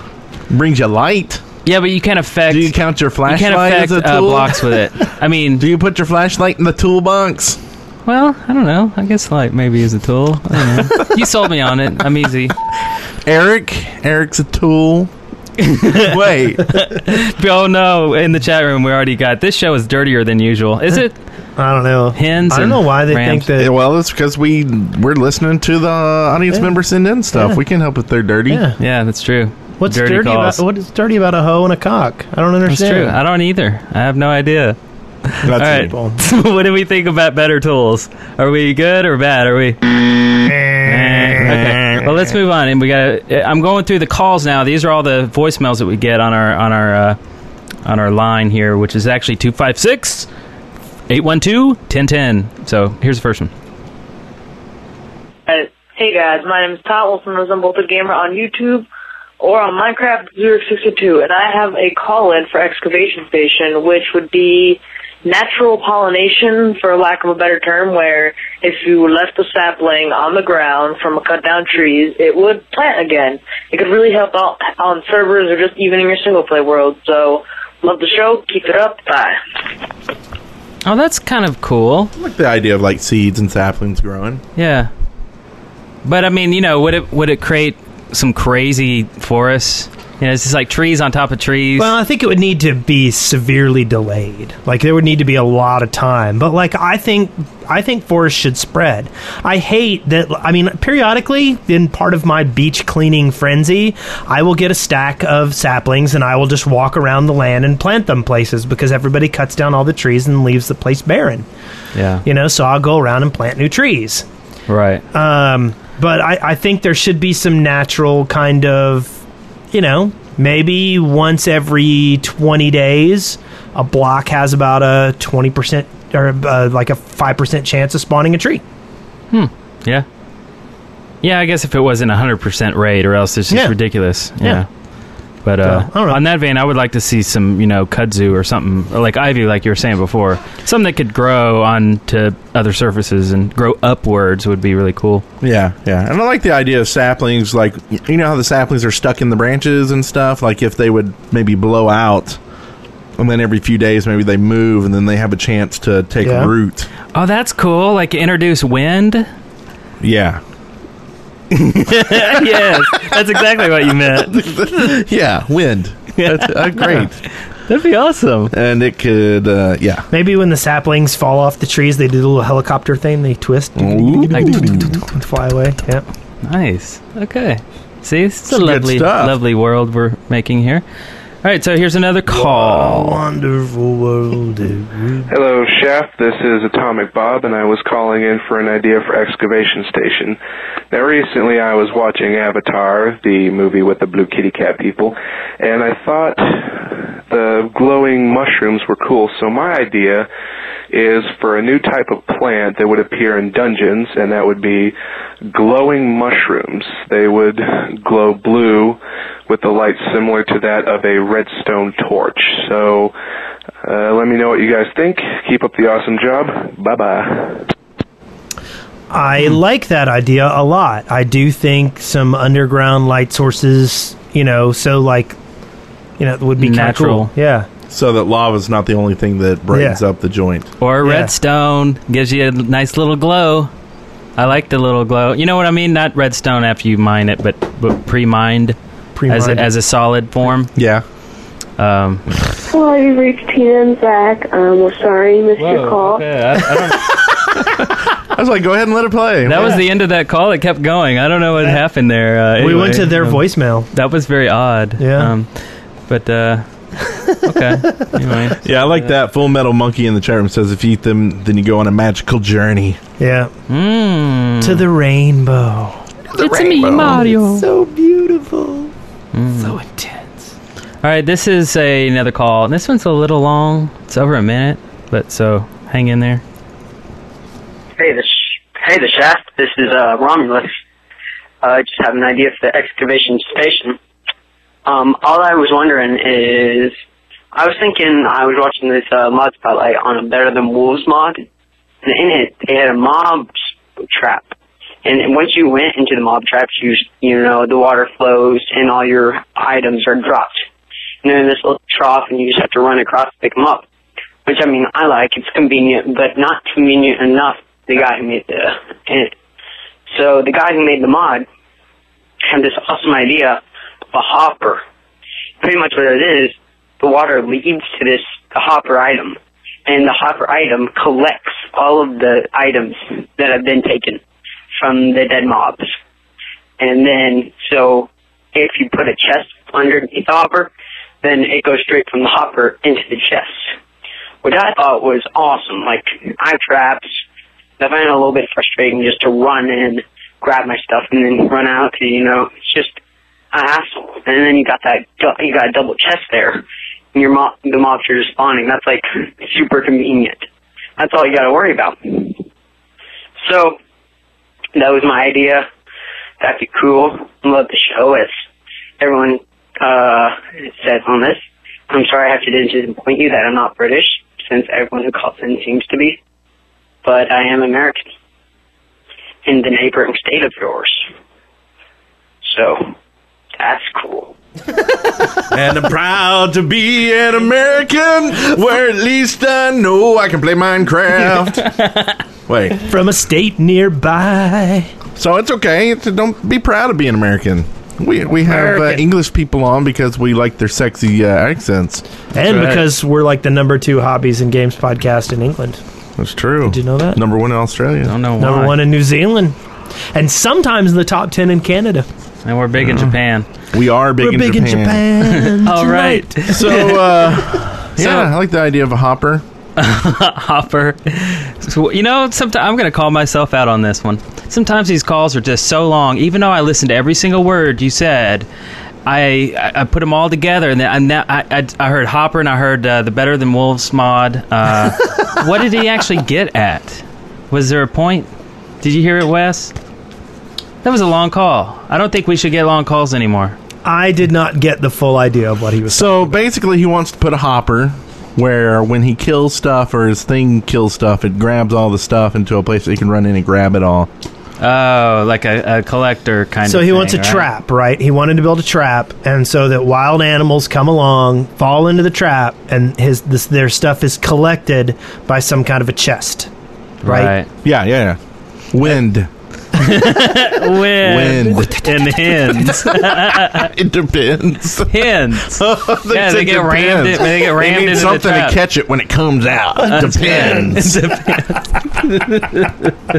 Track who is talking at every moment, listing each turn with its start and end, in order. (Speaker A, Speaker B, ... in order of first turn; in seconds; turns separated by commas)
Speaker A: 0.5-1.4, Speaker B: 1.6-5.7, Speaker A: 2.5-4.7, Speaker A: 5.6-7.6, Speaker B: 8.1-12.5, Speaker A: 13.2-15.1, Speaker B: 15.6-16.1, Speaker A: 15.9-16.7, Speaker B: 16.7-21.2, Speaker C: 21.6-23.7, Speaker B: 22.1-23.5, Speaker A: 23.6-28.6, Speaker C: 27.3-27.6, Speaker C: 28.5-28.8, Speaker B: 28.8-30.6, Speaker C: 29.8-33.1, Speaker B: 32.7-39.8, Speaker A: 35.4-35.9, Speaker C: 35.8-36.2, Speaker C: 40.5-41.4, Speaker B: 40.8-47.2, Speaker A: 41.4-42.1, Speaker B: 47.8-50.3, Speaker B: 51.1-53.5, Speaker D: 55.5-58.9, Speaker D: 59.4-79.4, Speaker B: 80.8-82.1, Speaker A: 82.2-84.4, Speaker B: 84.5-84.9, Speaker B: 86.0-91.9, Speaker C: 91.8-111.5, Speaker B: 111.9-112.2, Speaker C: 112.2-114.2, Speaker B: 114.7-115.0, Speaker C: 115.1-119.2, Speaker C: 119.7-128.6, Speaker B: 129.3-130.1, Speaker B: 131.2-134.7, Speaker C: 133.5-133.8, Speaker C: 134.4-134.6, Speaker B: 135.4-145.2, Speaker C: 135.6-136.2, Speaker A: 145.4-152.4, Speaker A: 153.2-156.9, Speaker C: 156.2-156.5, Speaker B: 157.1-159.3, Speaker A: 160.0-160.4, Speaker B: 161.6-165.0, Speaker A: 162.1-163.1, Speaker A: 164.0-167.2, Speaker B: 166.2-167.1, Speaker B: 167.7-168.5, Speaker A: 168.5-170.1, Speaker C: 170.1-176.1, Speaker A: 173.8-175.0, Speaker B: 174.3-174.7, Speaker B: 176.4-180.8, Speaker A: 178.5-179.3, Speaker B: 181.4-183.2, Speaker C: 182.3-185.3, Speaker E: 185.3-190.4, Speaker E: 190.9-200.3, Speaker E: 200.9-204.9, Speaker E: 205.5-213.1, Speaker E: 213.8-217.7, Speaker C: 219.1-225.4, Speaker C: 226.2-227.7, Speaker B: 226.6-227.3, Speaker A: 227.9-230.7, Speaker C: 229.7-230.0, Speaker B: 230.8-233.7, Speaker C: 231.0-231.3, Speaker B: 234.4-238.8, Speaker C: 239.2-239.7, Speaker B: 239.3-240.7, Speaker A: 240.7-241.0, Speaker B: 241.8-242.2, Speaker F: 242.7-246.2, Speaker B: 245.6-247.1, Speaker A: 248.3-249.8, Speaker B: 249.4-255.5, Speaker C: 252.6-253.9, Speaker C: 255.0-255.3, Speaker B: 256.1-256.6, Speaker C: 257.1-257.8, Speaker B: 257.4-259.1, Speaker A: 258.6-263.0, Speaker C: 263.2-263.5, Speaker B: 263.7-264.9, Speaker C: 264.6-268.9, Speaker B: 266.4-267.7, Speaker A: 266.4-267.3, Speaker B: 269.3-269.8, Speaker C: 269.6-270.2, Speaker B: 271.0-276.4, Speaker G: 278.0-280.7, Speaker G: 281.6-284.0, Speaker G: 284.9-286.9, Speaker G: 287.5-291.4, Speaker G: 292.0-294.5, Speaker G: 295.0-300.6, Speaker G: 301.2-303.8, Speaker G: 304.4-309.3, Speaker G: 310.1-311.4, Speaker G: 312.5-313.6, Speaker G: 314.1-314.8, Speaker G: 315.6-324.2, Speaker G: 324.8-325.8, Speaker G: 326.8-330.7, Speaker G: 331.2-333.6, Speaker G: 334.4-337.1, Speaker G: 337.8-343.0, Speaker G: 343.5-350.4, Speaker G: 351.0-352.4, Speaker G: 353.4-353.8, Speaker G: 354.8-355.6, Speaker G: 356.4-358.3, Speaker G: 359.0-366.2, Speaker G: 367.0-368.1, Speaker G: 369.4-371.0, Speaker G: 372.4-372.9, Speaker G: 373.6-374.3, Speaker A: 375.5-381.7, Speaker B: 381.8-382.1, Speaker A: 382.5-382.8, Speaker C: 382.9-384.9, Speaker A: 385.1-392.0, Speaker C: 388.4-389.0, Speaker C: 392.3-395.8, Speaker B: 392.4-392.8, Speaker A: 396.2-398.1, Speaker C: 396.6-397.2, Speaker B: 398.1-398.8, Speaker C: 398.4-399.6, Speaker C: 400.1-402.1, Speaker B: 402.4-403.4, Speaker A: 402.8-403.1, Speaker A: 403.7-405.1, Speaker C: 404.2-406.8, Speaker B: 405.3-407.0, Speaker A: 406.5-409.4, Speaker B: 408.0-408.3, Speaker B: 409.8-418.5, Speaker B: 419.1-428.3, Speaker B: 428.8-429.7, Speaker B: 430.8-433.6, Speaker C: 433.8-436.4, Speaker A: 435.9-444.1, Speaker B: 444.6-447.5, Speaker C: 446.6-456.5, Speaker B: 457.0-457.5, Speaker C: 457.1-457.3, Speaker A: 457.6-458.2, Speaker A: 458.7-459.3, Speaker B: 459.8-463.7, Speaker A: 460.9-471.0, Speaker B: 464.9-468.6, Speaker B: 469.8-472.9, Speaker C: 470.2-470.7